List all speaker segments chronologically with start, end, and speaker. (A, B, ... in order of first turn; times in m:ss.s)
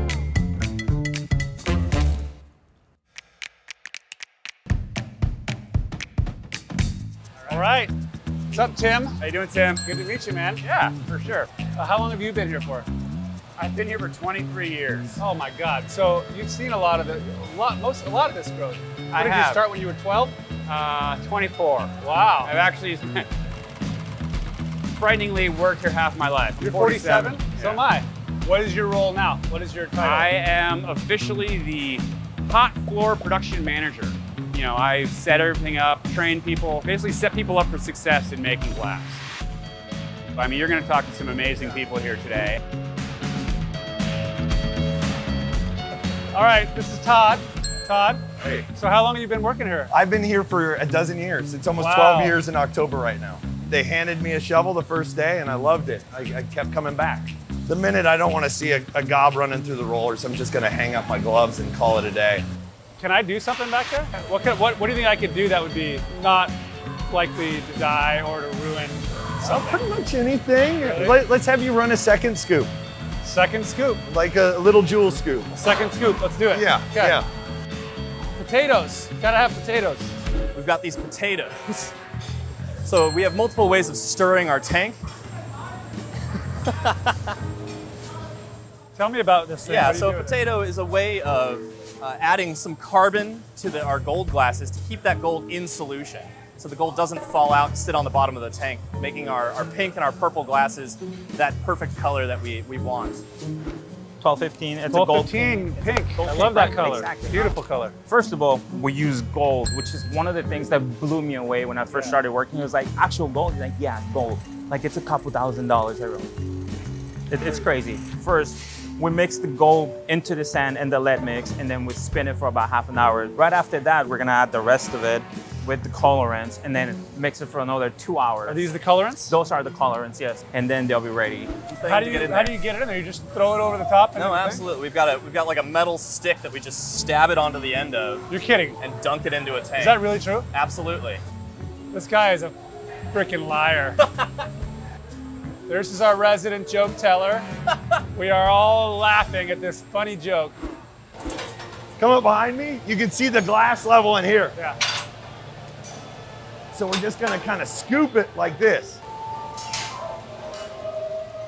0:07.5-0:07.9 A
0:08.5-0:10.6 A
0:09.2-0:09.7 B
0:10.6-0:11.6 B
0:11.7-0:12.9 A
0:13.6-0:15.2 B
0:15.2-0:20.4 A
0:19.1-0:19.6 B
0:20.7-0:23.3 B
0:22.0-0:22.5 A
0:24.9-0:27.8 B
0:26.6-0:30.3 A
0:30.0-0:39.2 B
0:40.4-0:42.6 B
0:46.3-0:49.9 A
0:49.9-1:02.4 C
0:51.8-0:52.4 A
1:03.0-1:06.5 A
1:07.1-1:09.8 A
1:09.4-1:12.7 C
1:10.8-1:11.2 A
1:13.2-1:14.0 A
1:14.0-1:15.5 C
1:15.5-1:17.2 A
1:16.5-1:17.3 C
1:18.4-1:20.1 A
1:20.5-1:22.0 D
1:22.8-1:25.0 D
1:26.7-1:27.3 D
1:29.0-1:30.4 A
1:29.6-1:43.2 D
1:44.2-1:47.6 E
1:44.9-1:48.0 A
1:48.1-1:56.3 E
1:51.9-1:52.2 A
1:57.3-2:08.7 E
2:08.5-2:09.4 A
2:09.3-2:11.6 E
2:11.7-2:12.6 D
2:11.8-2:14.6 A
2:14.2-2:18.3 D
2:18.3-2:18.8 A
2:18.8-2:21.2 D
2:19.7-2:20.5 A
2:21.9-2:22.6 A
2:23.1-2:24.0 A
2:25.7-2:27.5 A
2:28.1-2:30.6 A
2:32.0-2:34.6 C
2:36.7-2:39.0 C